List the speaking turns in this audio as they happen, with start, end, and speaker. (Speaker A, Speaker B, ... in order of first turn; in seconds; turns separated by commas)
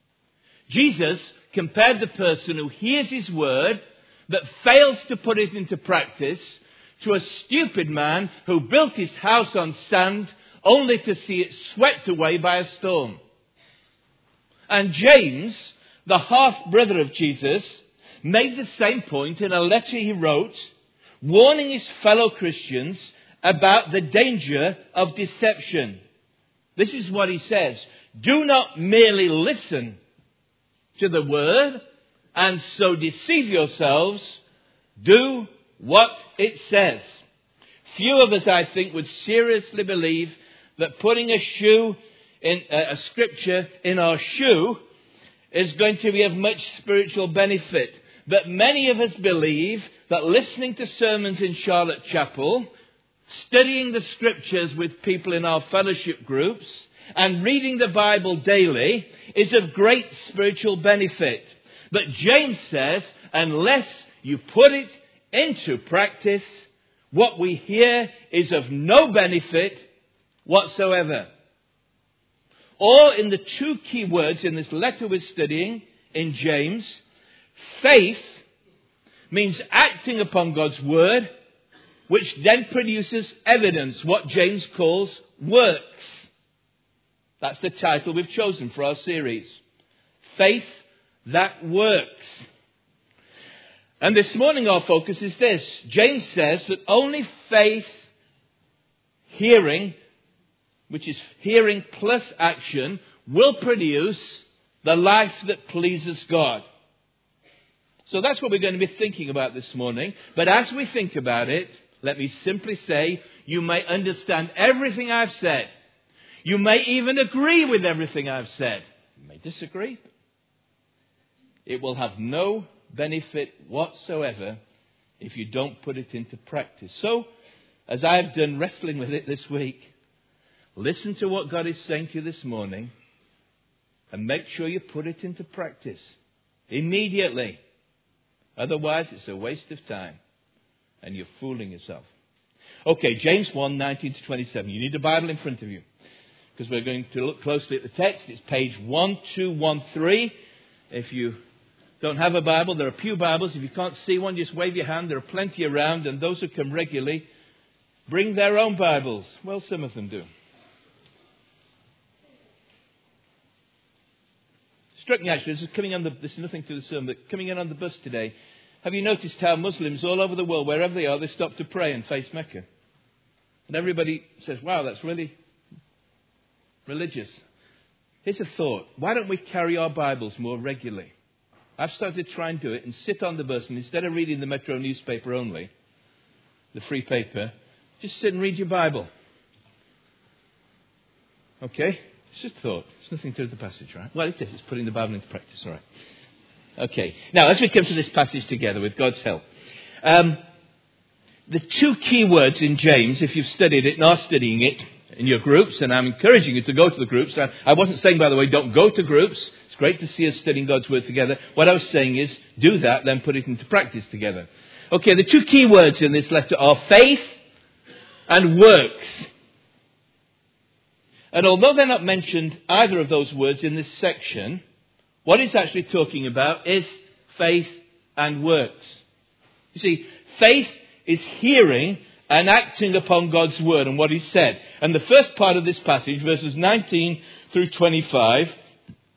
Speaker A: 0.7-13.2, Speaker A: 14.7-20.7, Speaker A: 21.2-26.0, Speaker A: 26.8-30.0, Speaker A: 30.9-31.8, Speaker A: 32.3-34.4, Speaker A: 35.0-37.2, Speaker A: 37.9-44.8, Speaker A: 45.5-52.7, Speaker A: 53.3-69.8, Speaker A: 70.5-71.3, Speaker A: 72.8-77.0, Speaker A: 77.5-78.4, Speaker A: 79.3-81.3, Speaker A: 82.1-86.3, Speaker A: 87.4-89.6, Speaker A: 90.2-92.4, Speaker A: 94.0-97.9, Speaker A: 99.3-99.9, Speaker A: 100.9-106.6, Speaker A: 108.0-115.7, Speaker A: 116.4-120.0, Speaker A: 121.7-124.6, Speaker A: 125.2-127.3, Speaker A: 127.9-129.9, Speaker A: 130.8-132.9, Speaker A: 134.1-136.1, Speaker A: 136.7-137.6, Speaker A: 138.6-140.2, Speaker A: 141.0-142.1, Speaker A: 142.8-145.8, Speaker A: 146.6-150.3, Speaker A: 150.9-151.4, Speaker A: 152.0-157.2, Speaker A: 158.1-160.3, Speaker A: 165.0-172.6, Speaker A: 173.7-175.3, Speaker A: 176.9-177.4, Speaker A: 178.2-181.1, Speaker A: 181.8-185.7, Speaker A: 186.7-189.1, Speaker A: 191.6-195.8, Speaker A: 196.8-199.4, Speaker A: 200.0-200.4, Speaker A: 201.5-217.4, Speaker A: 218.3-219.3, Speaker A: 221.3-224.6, Speaker A: 225.2-229.0, Speaker A: 229.7-238.5